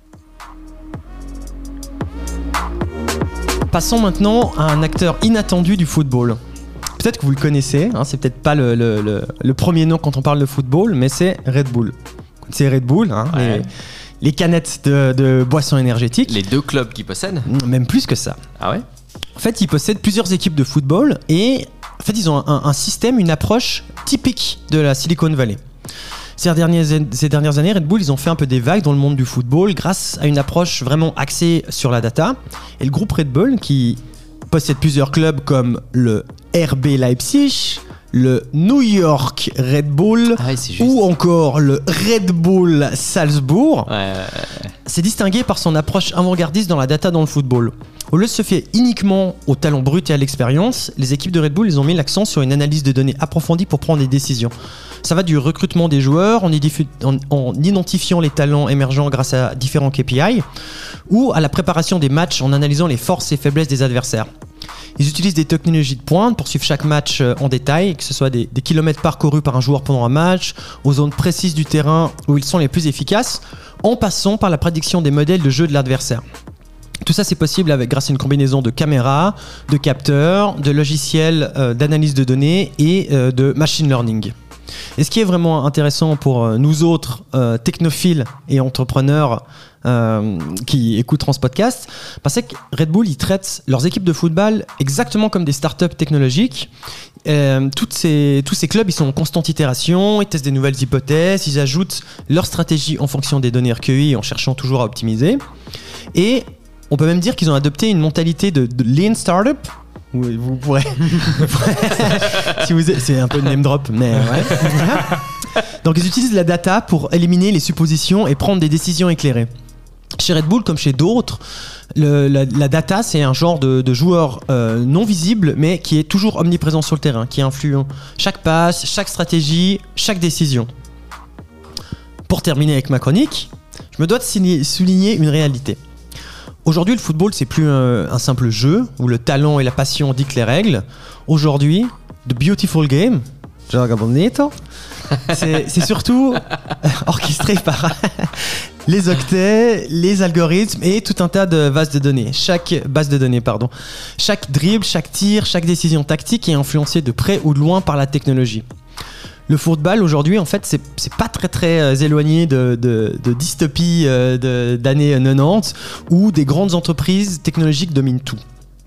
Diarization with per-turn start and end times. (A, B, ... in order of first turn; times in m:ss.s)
0:03.7-0:06.4 A
0:07.0-0:16.4 A
0:13.3-0:13.7 B
0:16.2-0:17.5 B
0:17.5-0:18.4 A
0:18.6-0:18.8 B
0:19.4-0:25.6 A
0:26.4-0:43.9 A
0:40.4-0:41.0 B
0:43.9-0:44.7 B
0:44.8-1:00.5 A
1:01.1-1:04.3 A
1:05.0-1:16.2 A
1:17.0-1:24.3 A
1:25.0-1:36.7 A
1:37.2-1:45.4 A
1:46.1-1:59.5 A
2:00.2-2:01.4 A
2:02.0-2:10.7 A
2:12.3-2:15.8 A
2:16.6-2:24.6 A
2:25.2-2:38.6 A
2:39.5-2:48.4 A